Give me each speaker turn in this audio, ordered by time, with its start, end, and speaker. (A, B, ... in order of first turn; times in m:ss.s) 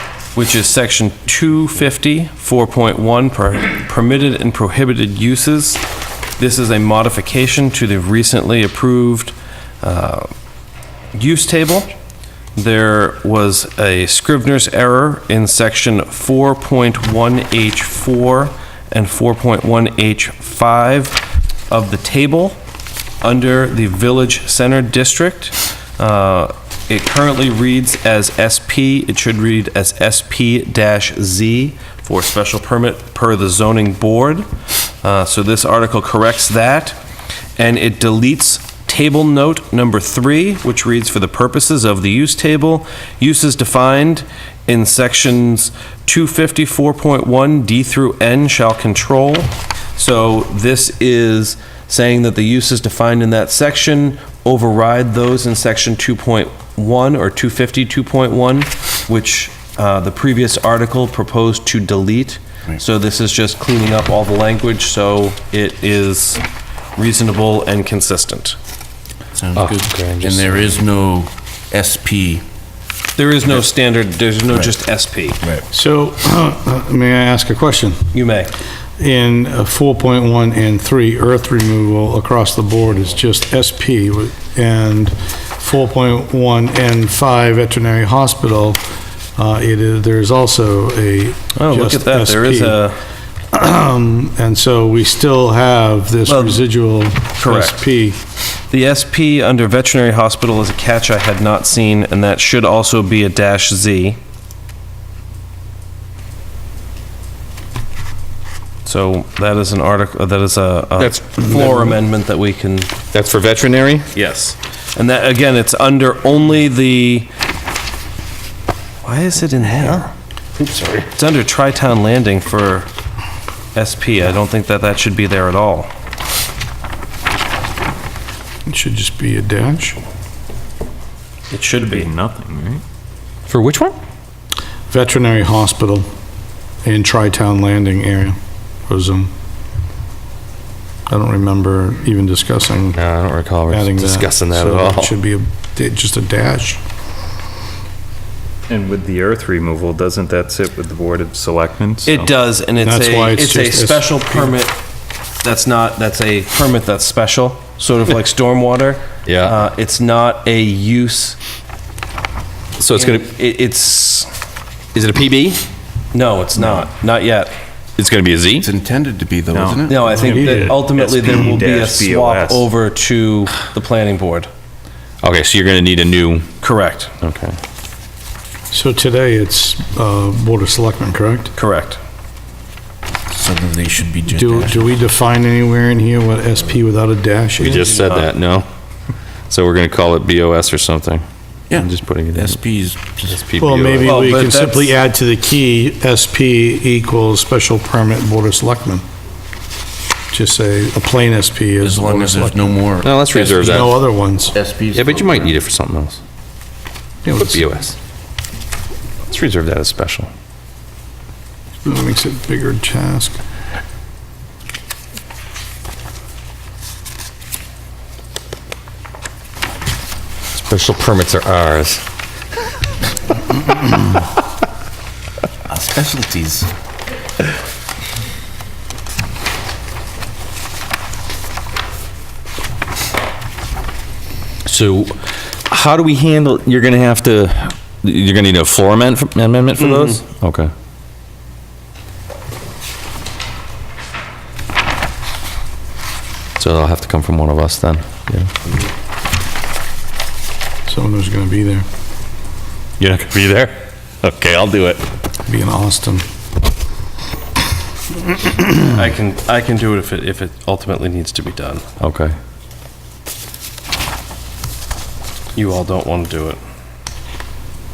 0:00.4-0:05.8 A
0:06.4-0:10.3 A
0:11.1-0:11.9 A
0:12.6-0:22.6 A
0:23.2-0:34.5 A
0:35.0-0:37.0 A
0:37.6-1:06.4 A
1:07.0-1:08.6 A
1:09.4-1:12.4 B
1:09.6-1:10.8 C
1:13.2-1:15.4 A
1:15.7-1:18.1 D
1:18.1-1:18.5 A
1:19.0-1:28.8 D
1:29.4-1:32.8 D
1:31.6-1:33.0 A
1:33.5-1:38.2 D
1:36.3-1:36.6 A
1:37.4-1:37.8 A
1:38.7-1:44.2 A
1:48.8-1:52.9 A
1:51.0-1:52.0 C
1:53.1-1:54.1 C
1:54.2-1:57.3 A
1:59.0-2:00.1 A
2:00.6-2:01.1 C
2:01.2-2:02.9 A
2:03.8-2:05.9 A
2:08.7-2:10.0 D
2:11.5-2:12.1 A
2:11.8-2:12.8 E
2:13.5-2:14.0 C
2:14.9-2:16.1 D
2:16.8-2:19.3 D
2:21.1-2:23.0 D
2:23.0-2:25.1 C
2:23.7-2:26.8 D
2:28.7-2:32.3 E
2:32.1-2:34.8 A
2:32.8-2:34.5 D
2:35.4-2:41.4 A
2:39.3-2:39.6 C
2:42.8-2:43.3 C
2:42.9-2:44.3 A
2:44.9-2:45.6 C
2:46.1-2:47.5 A
2:48.0-2:48.7 C
2:48.6-2:50.1 B
2:49.5-2:52.7 E
2:49.9-2:54.5 A
2:50.2-2:50.8 D
2:55.2-2:56.5 C
2:56.6-2:57.1 A
2:57.2-2:57.6 C
2:58.7-3:01.5 D
3:01.6-3:02.0 A
3:03.3-3:04.9 B
3:04.3-3:07.9 D
3:07.6-3:08.7 C
3:07.6-3:08.3 A
3:09.5-3:12.6 C
3:11.7-3:13.4 B
3:13.3-3:14.2 C
3:13.6-3:19.0 D
3:14.0-3:14.9 A
3:20.3-3:22.8 D
3:21.8-3:24.0 B
3:23.0-3:23.9 C
3:23.6-3:24.6 D
3:24.5-3:25.6 B
3:24.9-3:26.2 C
3:27.2-3:27.7 D
3:27.4-3:28.0 C
3:29.3-3:30.3 C
3:31.8-3:33.4 D
3:40.5-3:42.0 C
3:45.7-3:46.7 B
3:54.6-3:55.2 C
3:55.7-4:00.7 C
3:59.8-4:00.2 A
4:06.6-4:08.5 C
4:10.9-4:11.8 D
4:13.0-4:15.0 C
4:15.5-4:16.2 D
4:18.8-4:21.8 A
4:22.0-4:22.3 C
4:25.6-4:26.6 A